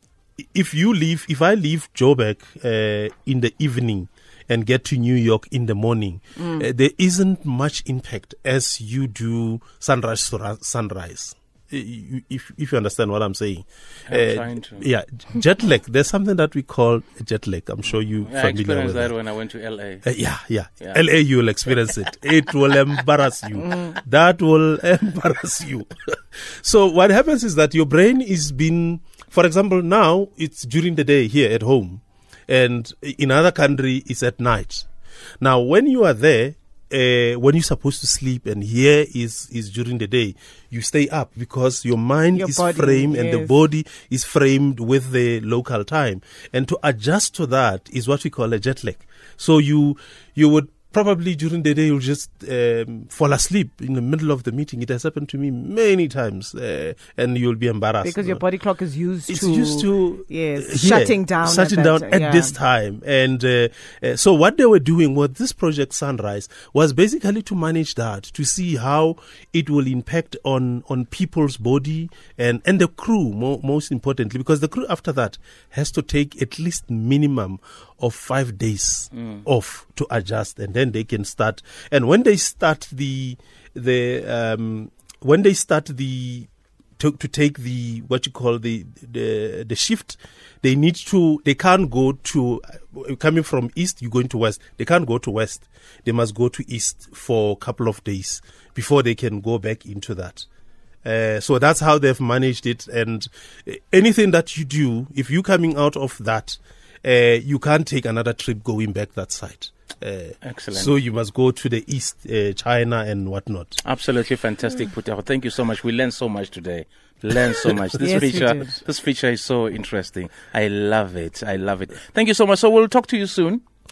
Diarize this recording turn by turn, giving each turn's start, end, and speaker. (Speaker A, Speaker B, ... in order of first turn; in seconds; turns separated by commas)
Speaker A: 0.4-19.1, Speaker B: 14.1-14.8, Speaker B: 18.2-20.0, Speaker A: 20.0-34.9, Speaker A: 35.4-58.4, Speaker C: 42.3-43.6, Speaker C: 58.0-62.5, Speaker A: 59.3-100.5, Speaker A: 101.0-113.8, Speaker B: 110.4-111.0, Speaker B: 113.8-123.6, Speaker C: 118.0-118.8